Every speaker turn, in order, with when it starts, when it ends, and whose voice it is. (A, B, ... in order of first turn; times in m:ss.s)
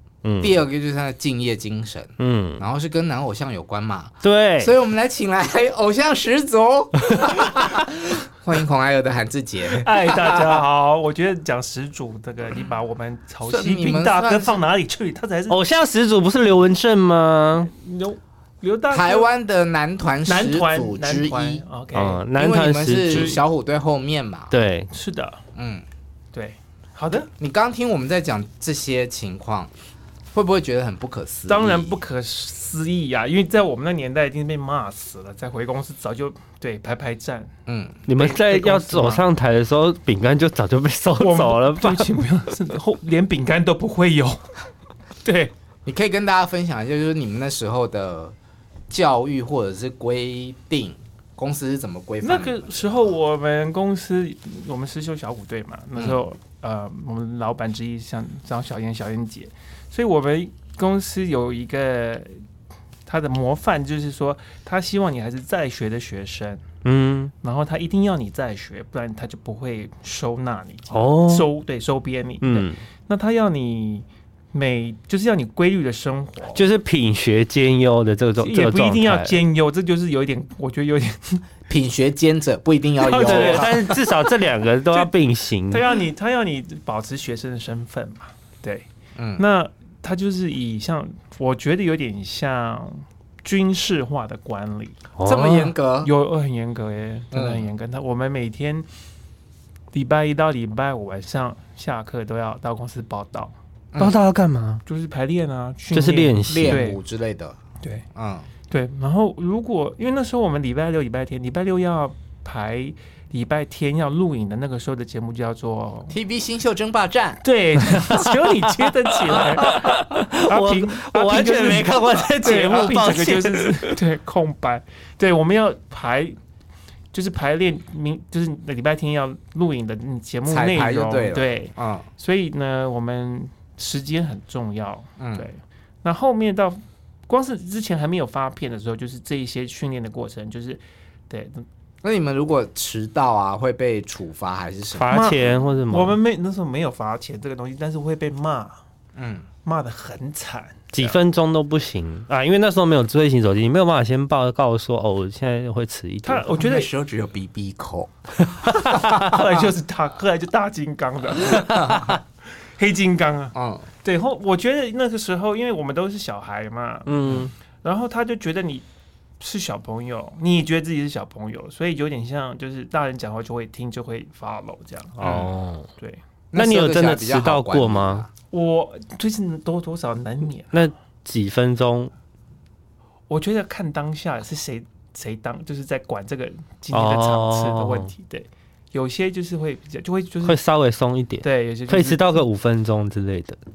0:00.2-0:00.6 A
0:00.4-0:10.6 B
0:02.2-0:02.6 A
0:04.2-0:04.7 A
0:09.7-0:15.6 C
0:13.4-0:14.6 B
0:15.5-0:17.7 A
0:17.6-0:19.3 C
0:18.9-0:21.6 B
0:20.2-0:22.2 C
0:21.9-0:23.4 A
0:22.3-0:24.5 B
0:23.1-0:23.4 C
0:24.5-0:24.9 A
0:24.9-0:25.4 C
0:25.5-0:25.8 B
0:26.3-0:27.3 C
0:27.4-0:29.7 B
0:30.3-0:32.0 B
0:31.5-0:37.5 C
0:37.6-0:38.0 B
0:38.0-0:42.0 A
0:38.1-0:39.2 C
0:41.2-0:44.5 C
0:45.2-0:45.5 C
0:45.8-0:48.3 B
0:48.9-0:53.1 B
0:52.2-1:02.4 C
0:56.0-0:56.2 B
1:03.0-1:06.6 C
1:06.8-1:07.3 A
1:07.4-1:16.6 C
1:10.9-1:11.5 A
1:12.4-1:12.8 A
1:16.5-1:19.4 A
1:18.4-1:21.4 C
1:21.7-1:23.8 B
1:23.0-1:24.0 C
1:23.2-1:25.8 A
1:25.7-1:35.0 C
1:29.2-1:29.4 B
1:35.2-1:35.7 A
1:35.2-1:36.1 B
1:36.0-1:38.9 C
1:37.3-1:37.7 B
1:39.9-1:43.5 C
1:43.9-1:44.2 B
1:44.0-1:44.8 A
1:44.8-1:47.0 C
1:45.9-1:46.8 A
1:46.5-1:47.6 B
1:47.8-1:48.0 C
1:48.1-1:48.5 B
1:48.7-1:56.2 C
1:56.1-1:57.4 B
1:57.4-2:06.4 C
1:58.1-1:58.8 A
1:59.6-2:04.0 A
2:07.1-2:21.6 C
2:10.5-2:12.1 B
2:15.2-2:15.5 B
2:22.0-2:25.1 B
2:24.9-2:26.2 A
2:25.1-2:28.8 C
2:29.2-2:29.5 B
2:29.6-2:31.2 C
2:30.9-2:36.5 A
2:36.2-2:36.9 C
2:36.5-2:39.7 B
2:39.0-2:42.2 C
2:41.6-2:42.2 B
2:42.8-2:47.2 C
2:43.5-2:43.9 B
2:47.0-2:47.5 A
2:47.8-2:48.8 C
2:49.4-2:55.2 C
2:55.2-2:55.9 A
2:55.2-2:55.5 B
2:56.0-2:56.2 C
2:56.5-2:58.3 B
2:56.5-2:58.2 A
2:58.5-3:00.9 C
3:00.7-3:02.1 A
3:03.3-3:10.6 C
3:06.9-3:08.1 A
3:10.4-3:13.6 A
3:11.4-3:12.4 C